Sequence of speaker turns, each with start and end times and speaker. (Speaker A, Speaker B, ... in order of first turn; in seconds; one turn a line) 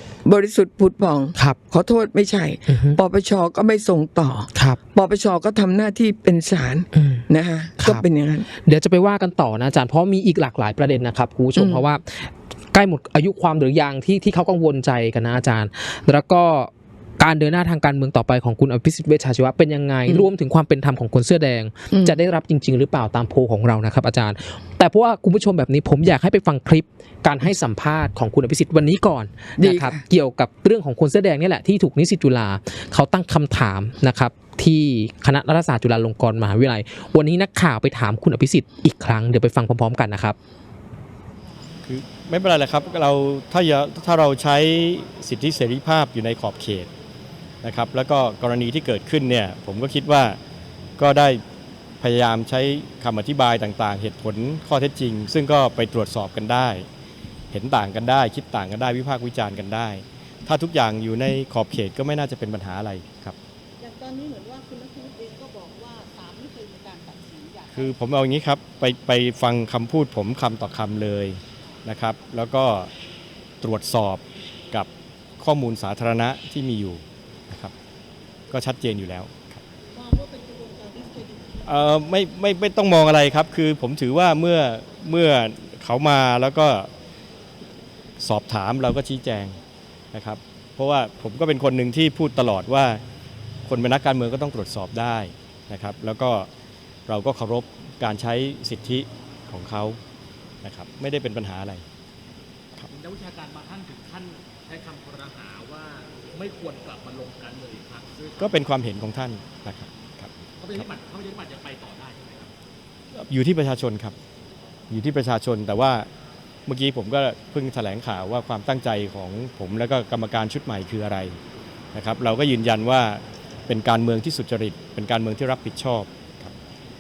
Speaker A: 0.2-8.5
Speaker B: 2.7-3.0
Speaker B: 6.9-7.2
Speaker B: 8.7-40.4
Speaker A: 11.6-11.8
Speaker A: 29.6-30.0
Speaker C: 41.9-46.9
Speaker C: 47.6-50.4
Speaker C: 51.0-51.4
Speaker C: 52.0-56.9
Speaker C: 57.5-63.4
Speaker D: 63.8-68.0
Speaker C: 67.7-72.9
Speaker C: 73.6-74.9
Speaker C: 75.4-77.7
Speaker C: 78.5-79.6
Speaker D: 79.9-81.6
Speaker C: 81.7-86.9
Speaker C: 88.2-89.6
Speaker C: 90.1-93.0
Speaker C: 93.7-96.5
Speaker C: 97.1-100.0
Speaker C: 100.6-101.8
Speaker E: 102.9-108.5
Speaker C: 108.4-110.3
Speaker E: 110.6-112.5
Speaker C: 113.3-114.2
Speaker C: 114.9-116.1
Speaker C: 116.7-121.4
Speaker C: 121.9-126.5